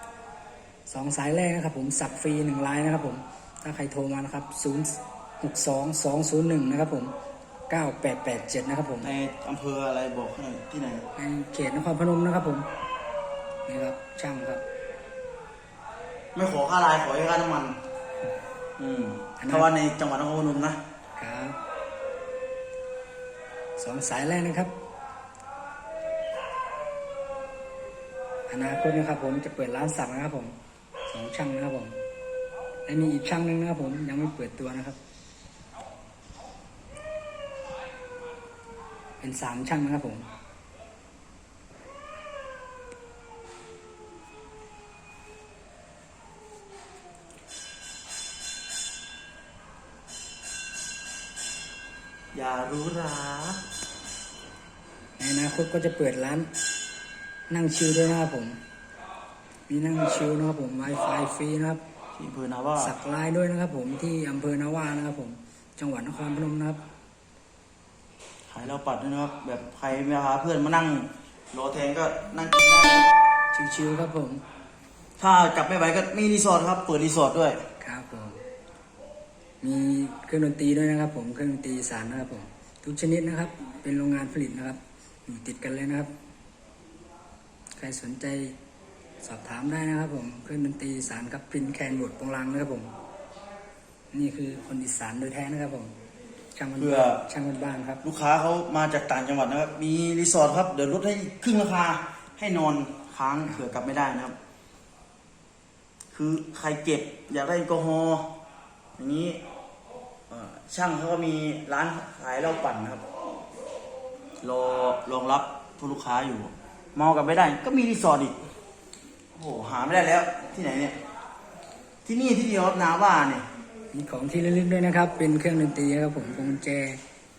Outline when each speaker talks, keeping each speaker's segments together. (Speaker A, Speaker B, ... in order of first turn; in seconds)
Speaker A: 0.9-7.1, 7.7-9.1, 11.2-12.7, 13.7-14.6, 19.4-19.7, 21.2-21.6, 23.8-24.7, 28.5-30.6, 31.1-32.0, 32.9-35.0, 39.2-40.3, 55.2-56.5, 57.5-58.6, 59.7-61.8, 62.8-66.8, 73.5-74.4, 77.8-78.4, 79.6-86.1, 87.8-88.6, 89.2-92.9, 94.1-95.9, 96.6-98.0, 123.9-127.0
Speaker B: 9.0-11.1, 16.4-17.8, 18.8-20.8, 52.3-53.6, 62.2-62.9, 68.5-73.1, 75.2-77.6, 96.8-97.3, 98.0-104.3, 106.1-108.4, 109.0-109.4, 110.3-113.0, 114.4-118.5, 119.3-121.0, 122.0-123.5